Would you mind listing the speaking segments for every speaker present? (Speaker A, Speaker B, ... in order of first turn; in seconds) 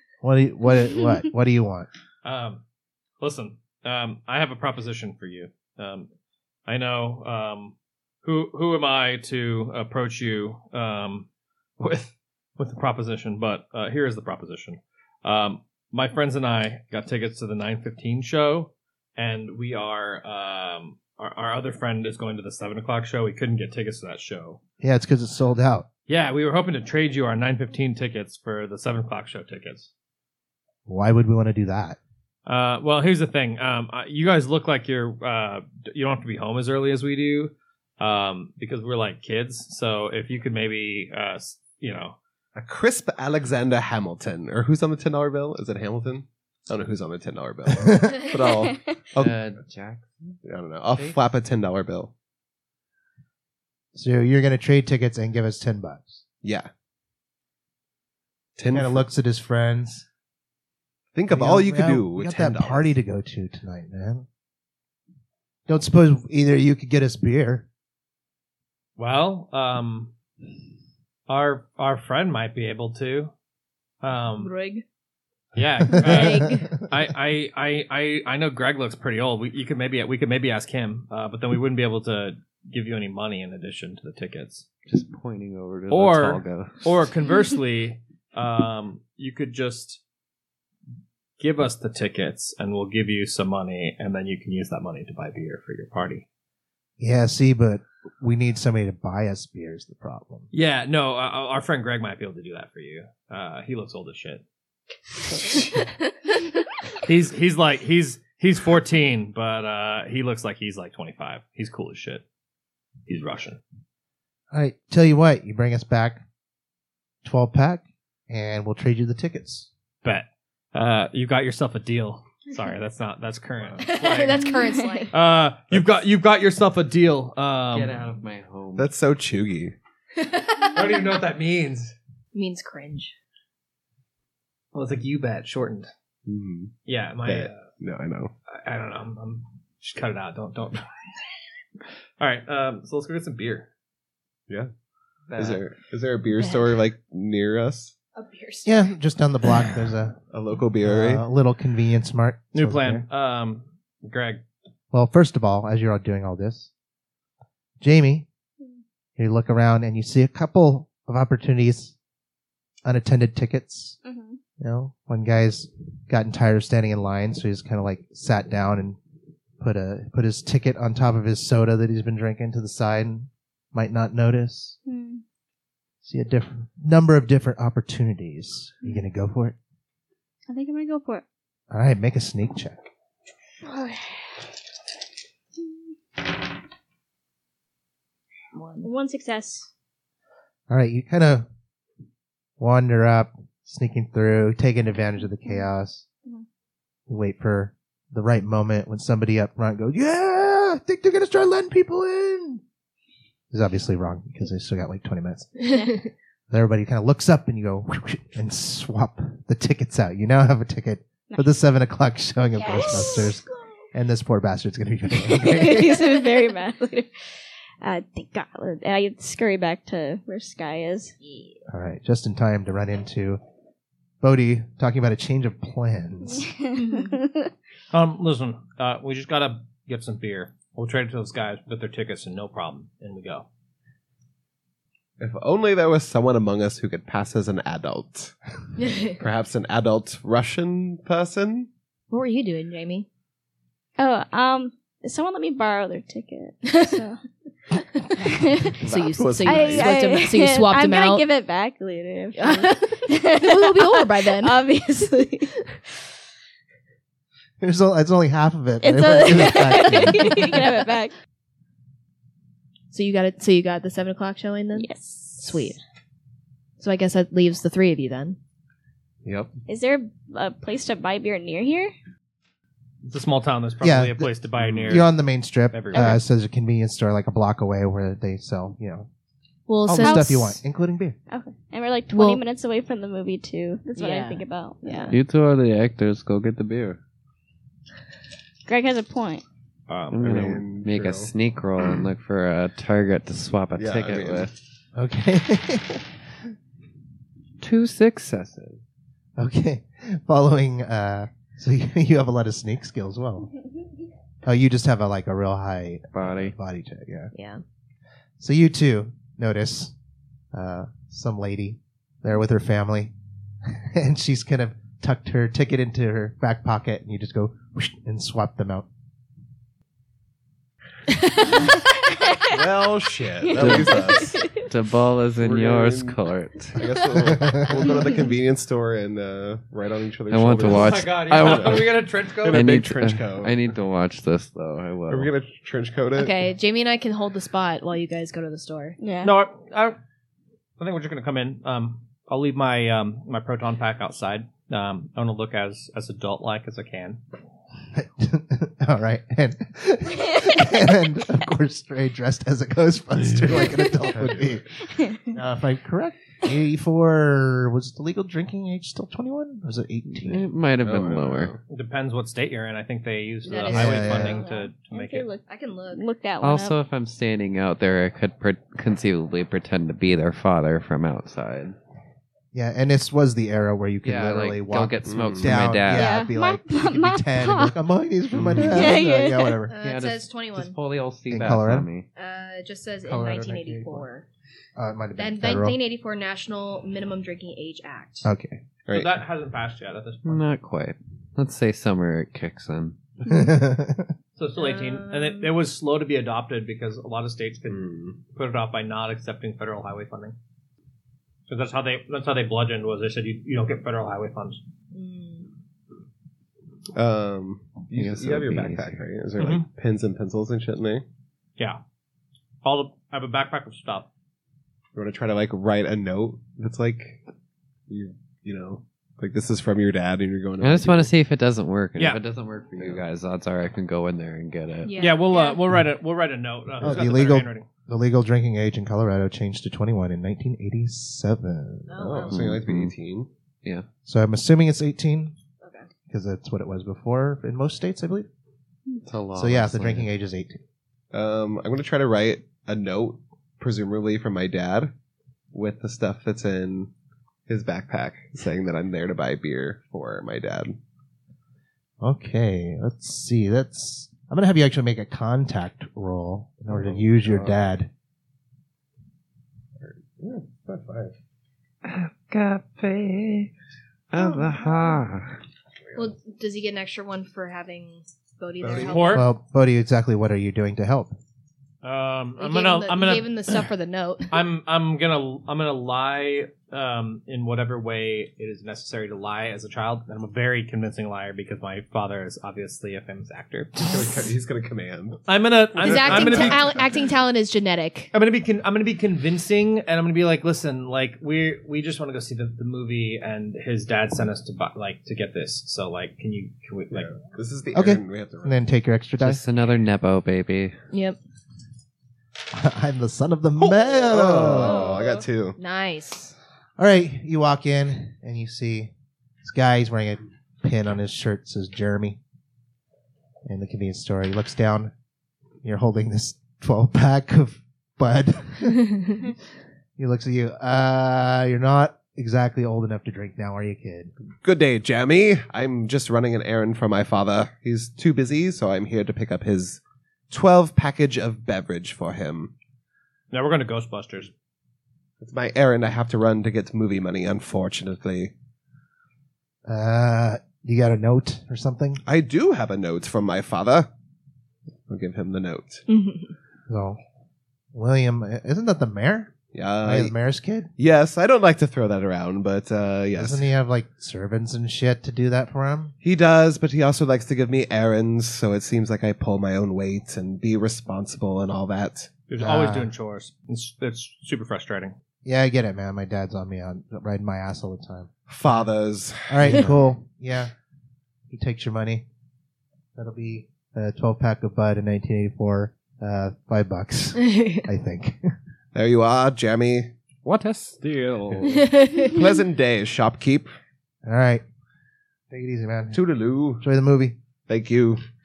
Speaker A: 0.2-1.9, 24.8-25.9, 30.9-32.0, 47.8-48.2, 53.9-56.2, 58.7-60.1, 61.3-64.3, 65.7-67.7, 76.0-76.4, 97.0-100.5, 114.5-116.2, 117.2-119.7, 148.7-150.2, 150.8-153.1, 154.9-156.7, 157.8-158.3, 159.2-161.9, 162.8-164.0, 164.6-169.0, 169.6-174.8, 176.0-179.6, 181.7-182.9, 190.7-191.5, 192.6-196.1, 197.1-202.6, 203.5-205.6, 206.5-216.3, 221.7-223.4, 224.2-226.5, 257.6-260.7, 273.8-274.3, 274.9-279.1, 279.9-281.2, 294.9-296.1, 299.4-303.5, 304.4-307.3, 308.4-309.9, 310.5-313.1, 313.7-318.9, 327.3-327.7, 347.9-354.7, 355.2-360.5, 363.7-364.4, 372.5-379.7, 381.3-381.9, 383.1-384.1, 384.8-385.8, 388.2-388.6, 393.2-394.1, 426.8-432.0, 434.1-435.4, 436.1-438.3, 439.4-440.6, 452.0-457.9, 469.1-471.2, 497.7-499.4, 502.5-504.9, 506.8-508.9, 509.4-512.2, 513.5-514.9, 515.6-519.2, 520.0-524.1, 539.7-542.0, 546.7-547.0, 547.7-550.7, 553.2-555.9, 562.4-562.9, 565.2-568.1, 569.3-570.5, 571.3-572.1, 573.0-578.3, 584.0-584.4, 585.3-586.0, 586.6-587.2
Speaker B: 2.2-2.6, 3.2-6.1, 6.7-11.3, 11.8-24.6, 26.1-29.9, 32.5-42.2, 69.0-70.1, 71.3-73.3, 74.0-74.5, 75.5-84.7, 85.9-90.0, 91.4-96.2, 100.5-104.4, 107.0-112.2, 113.1-113.6, 120.0-128.0, 130.6-131.9, 134.7-135.9, 136.9-137.7, 138.5-140.9, 142.2-143.7, 152.5-154.4, 227.9-233.5, 273.1-275.1, 275.7-276.2, 289.9-290.5, 330.6-332.6, 339.2-340.0, 340.8-347.2, 361.7-365.3, 388.9-390.4, 394.4-400.4, 401.5-404.6, 409.4-409.7, 412.6-414.1, 422.0-422.2, 425.0-427.7, 468.7-469.3, 471.8-473.6, 474.3-483.8, 485.3-486.7, 488.1-497.2, 533.3-534.3, 562.3-565.0, 580.2-581.6
Speaker C: 42.6-49.4, 50.4-52.1, 56.4-56.7, 58.6-59.1, 61.1-62.9, 128.8-129.8, 136.3-136.7, 137.2-138.3, 145.3-147.9, 150.3-151.3, 235.2-238.4, 239.1-241.7, 248.8-249.9, 274.6-275.0, 290.2-292.0, 293.8-294.5, 322.5-324.5, 325.4-326.2, 326.8-333.6, 335.1-336.5, 353.3-354.6, 360.8-361.6, 375.1-375.7, 378.3-378.9, 388.9-389.1, 397.7-398.2, 406.9-411.0, 414.9-417.2, 417.9-421.1, 422.8-423.0, 432.0-433.3, 441.1-444.9, 445.5-446.9, 447.5-450.8, 459.8-461.1, 468.6-469.2, 483.8-485.2, 485.8-486.8, 496.9-498.6, 503.6-505.6, 524.4-532.5, 535.2-538.3, 542.0-543.9, 544.9-545.8, 549.5-550.1, 550.8-553.5, 556.0-562.1, 568.3-569.9, 578.7-579.9, 582.1-583.5, 585.9-586.6, 587.5-588.0
Speaker D: 49.2-51.2, 84.9-86.9, 127.7-128.9, 145.3-145.6, 285.1-287.0, 290.1-294.5, 297.6-298.8, 306.1-306.5, 323.6-326.9, 330.3-331.9, 332.4-335.3, 360.1-361.5, 366.4-371.8, 374.0-376.1, 378.4-378.8, 379.8-382.1, 390.2-393.0, 407.9-409.0, 420.6-425.0, 432.3-432.9, 439.0-440.1, 457.2-457.5, 461.9-463.5, 464.1-465.4, 499.2-500.8
Speaker E: 74.4-74.8, 75.9-76.7, 123.8-125.1, 130.3-131.0, 132.3-133.1, 148.2-148.9, 188.5-188.9, 238.8-239.1, 242.1-243.1, 246.7-247.0, 248.1-251.3, 252.4-254.6, 262.9-265.8, 266.8-268.4, 279.7-280.6, 282.1-282.4, 283.9-285.2, 307.3-307.6, 336.1-339.0, 363.4-364.5, 365.5-366.1, 379.7-380.8, 382.2-384.3, 385.2-388.3, 394.6-395.5, 404.9-405.5, 424.8-425.6, 431.9-432.5, 435.6-435.9, 464.2-465.0, 465.9-469.2, 472.4-474.4, 485.8-488.1, 500.9-501.2, 505.6-506.4, 545.9-546.3, 577.2-577.7, 581.4-582.2
Speaker F: 164.0-164.4, 174.9-175.2, 180.5-181.2, 183.6-184.1, 188.8-189.7, 205.7-206.1, 212.6-213.8, 215.2-217.1, 217.8-221.2, 226.4-227.5, 244.0-247.2, 249.4-255.7, 258.8-261.1, 264.8-265.8, 269.7-271.9, 275.9-276.2, 280.0-280.6, 281.3-285.2, 288.7-289.4, 321.6-322.5, 323.4-324.7, 339.0-339.3, 364.0-366.8, 375.9-377.8, 378.7-379.6, 504.6-505.2